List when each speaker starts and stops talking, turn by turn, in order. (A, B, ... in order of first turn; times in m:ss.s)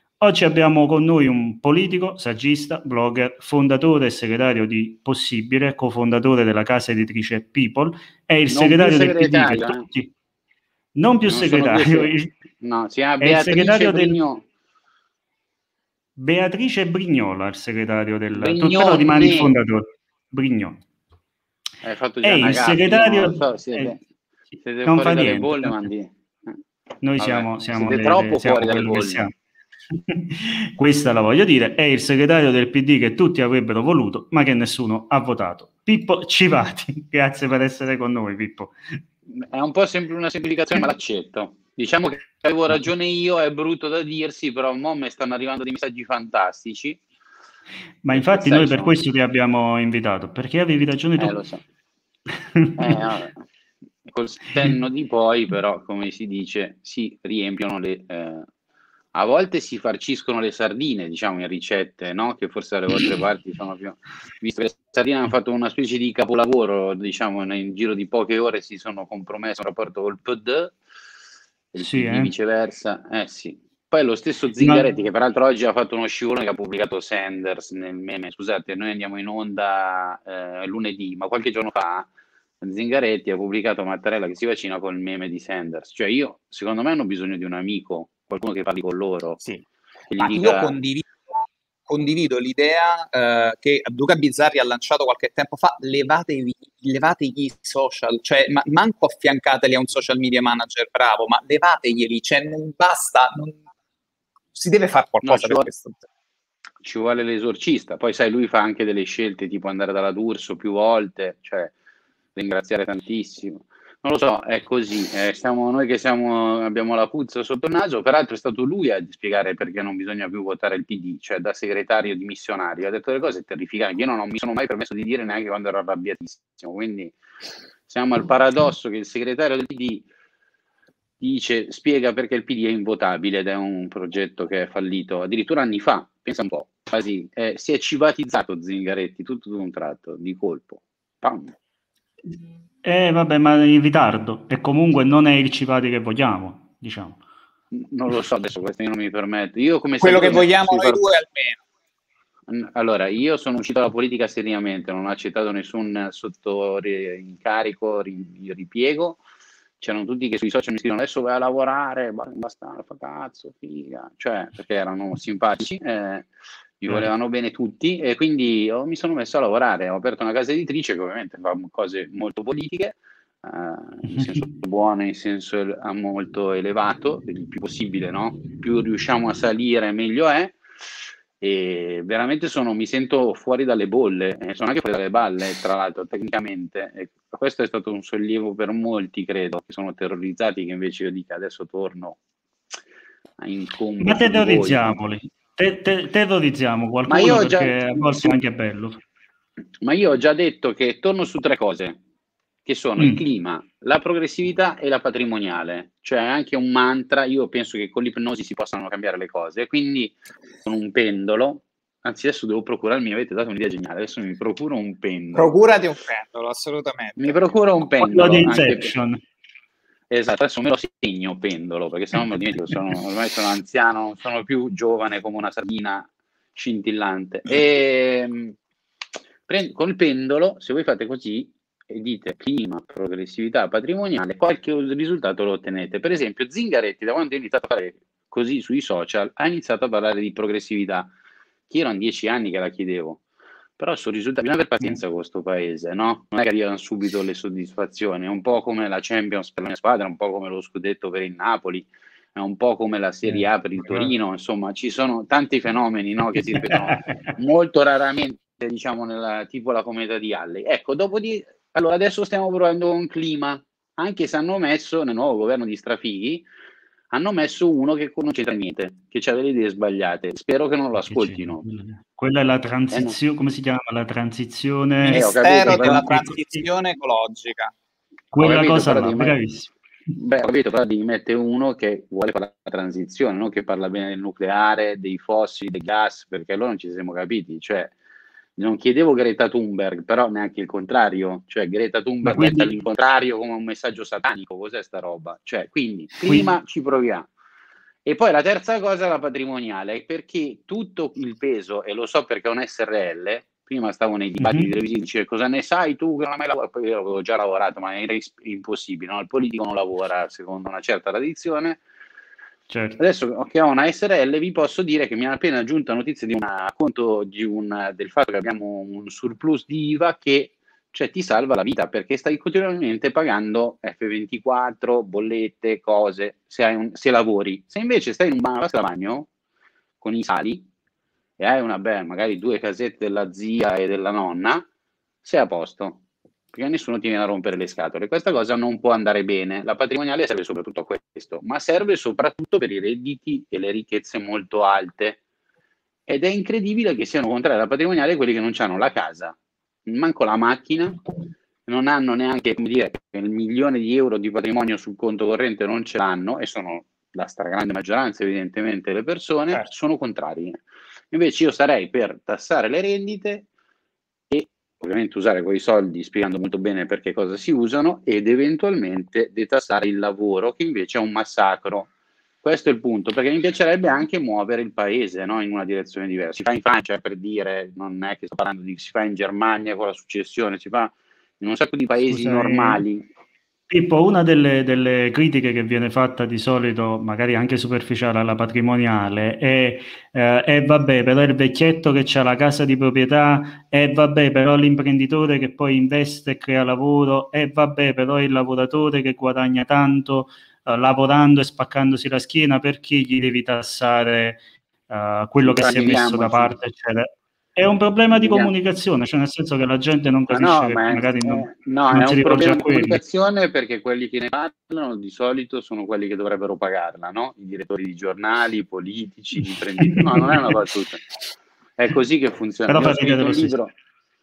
0:00.2-0:10.1 A
0:08.5-0:09.9 B
0:11.0-0:12.3 A
0:11.3-0:14.4 B
0:13.2-0:14.2 A
0:16.2-0:20.8 A
0:18.3-0:19.6 B
0:21.8-0:24.0 B
0:22.2-0:23.9 A
0:24.6-0:26.6 B
0:24.8-0:25.9 A
0:27.0-0:29.3 A
0:27.2-0:29.3 B
0:29.9-0:38.8 A
0:39.4-0:47.0 B
0:48.0-0:51.3 A
0:48.1-0:49.0 B
0:51.2-0:51.6 B
0:52.5-0:53.0 A
0:52.8-0:53.4 B
0:54.1-0:58.5 B
0:59.1-1:10.8 B
1:11.7-1:22.1 B
1:11.8-1:12.3 A
1:14.6-1:14.9 A
1:22.6-1:29.4 B
1:30.1-1:30.8 B
1:30.2-1:31.1 C
1:31.9-1:43.6 C
1:44.6-1:46.0 C
1:45.2-1:45.7 B
1:46.8-1:51.7 B
1:52.4-2:07.2 B
2:07.9-2:10.1 B
2:11.2-2:21.5 B
2:22.8-2:27.2 A
2:27.7-2:31.0 B
2:30.0-2:31.6 C
2:32.5-2:39.2 B
2:39.8-2:46.3 B
2:46.8-3:00.6 B
2:54.1-2:54.4 A
3:01.4-3:12.2 B
3:13.4-3:15.0 B
3:14.0-3:19.0 A
3:17.1-3:18.4 B
3:19.8-3:22.0 B
3:22.6-3:35.5 B
3:35.3-3:37.5 C
3:37.2-3:38.9 B
3:38.0-3:39.2 A
3:40.1-3:48.6 B
3:49.5-4:01.1 B
4:01.7-4:03.2 B
4:03.8-4:26.5 B
4:13.3-4:14.1 A
4:16.5-4:17.1 A
4:27.1-4:31.6 B
4:31.0-4:36.6 A
4:35.1-4:37.7 C
4:35.1-4:36.1 B
4:38.3-4:39.7 A
4:38.4-4:39.4 B
4:40.2-4:47.9 B
4:48.6-4:57.3 B
4:52.2-4:52.7 A
4:56.2-4:56.5 A
4:58.1-5:11.8 B
5:04.4-5:04.7 A
5:12.7-5:13.0 A
5:13.0-5:29.3 B
5:30.0-5:30.7 B
5:31.4-5:34.7 B
5:35.2-5:36.0 B
5:36.5-5:45.2 B
5:46.1-5:51.0 B
5:51.7-6:03.5 B
6:04.3-6:11.9 B
6:12.4-6:23.1 B
6:22.1-6:22.8 A
6:23.7-6:53.0 A
6:45.4-6:46.6 B
6:48.1-6:48.5 B
6:50.3-7:01.1 B
6:59.8-7:00.4 A
7:01.8-7:03.7 B
7:02.7-7:03.6 A